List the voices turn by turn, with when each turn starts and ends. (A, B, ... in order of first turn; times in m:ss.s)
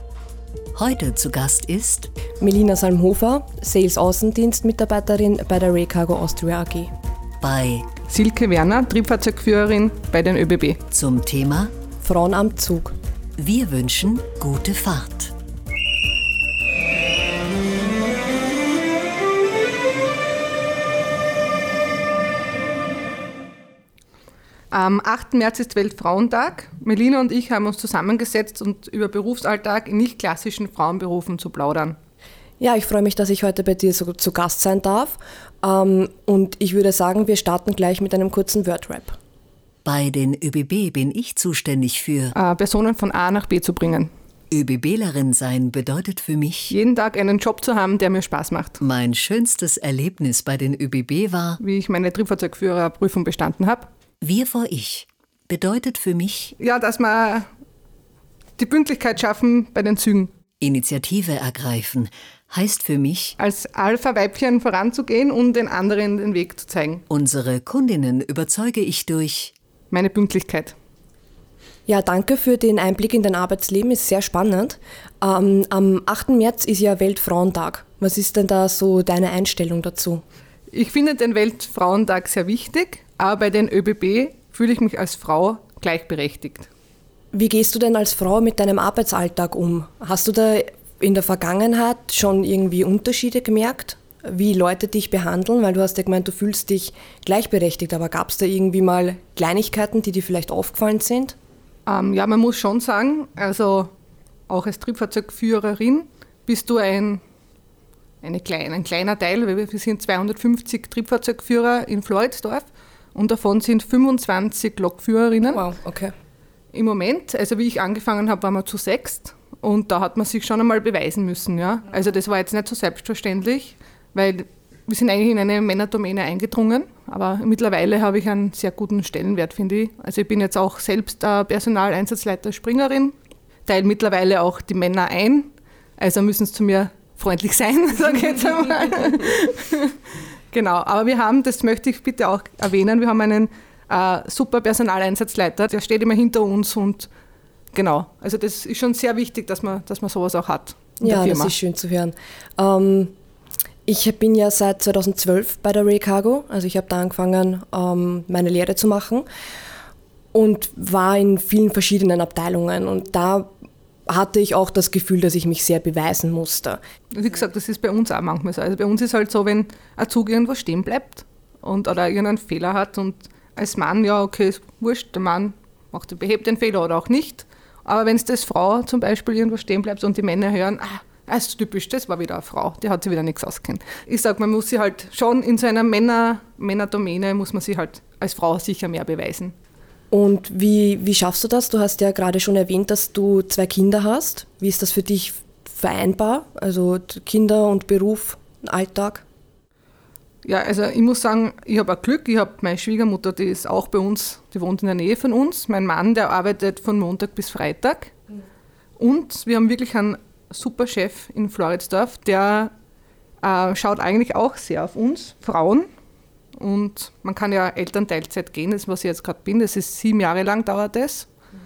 0:00.8-0:02.1 A
0:02.4-0:06.9 B
0:07.4-0:07.9 A
0:08.1-0:10.8 C
0:10.9-0:11.7 A
0:12.0-0:12.9 B
0:13.4-0:15.3 A
0:24.7-0:32.0 C
0:32.6-0:39.2 B
0:39.8-0:42.3 A
0:42.3-0:44.1 C
0:44.5-0:46.7 A
0:46.7-0:48.8 C
0:48.8-0:51.6 A
0:51.6-0:53.9 C
0:54.2-0:56.5 A
0:56.6-0:57.5 C
0:58.6-1:00.3 C
1:00.6-1:03.4 A
1:03.4-1:07.0 C
1:07.1-1:09.5 A
1:09.9-1:10.8 C
1:11.9-1:20.2 B
1:20.7-1:26.7 C
1:27.3-1:41.4 B
1:41.9-1:43.9 C
1:44.5-1:47.2 C
1:48.2-1:55.7 C
1:55.5-1:56.1 B
1:56.7-2:20.0 C
2:20.5-2:27.1 C
2:27.7-2:31.5 C
2:31.0-2:33.1 B
2:33.9-2:39.3 B
2:40.3-2:43.5 B
2:44.1-2:46.8 B
2:47.1-3:09.6 C
3:10.1-3:19.2 B
3:20.4-3:28.2 C
3:29.0-3:32.7 C
3:33.4-3:35.9 C
3:36.6-3:41.3 C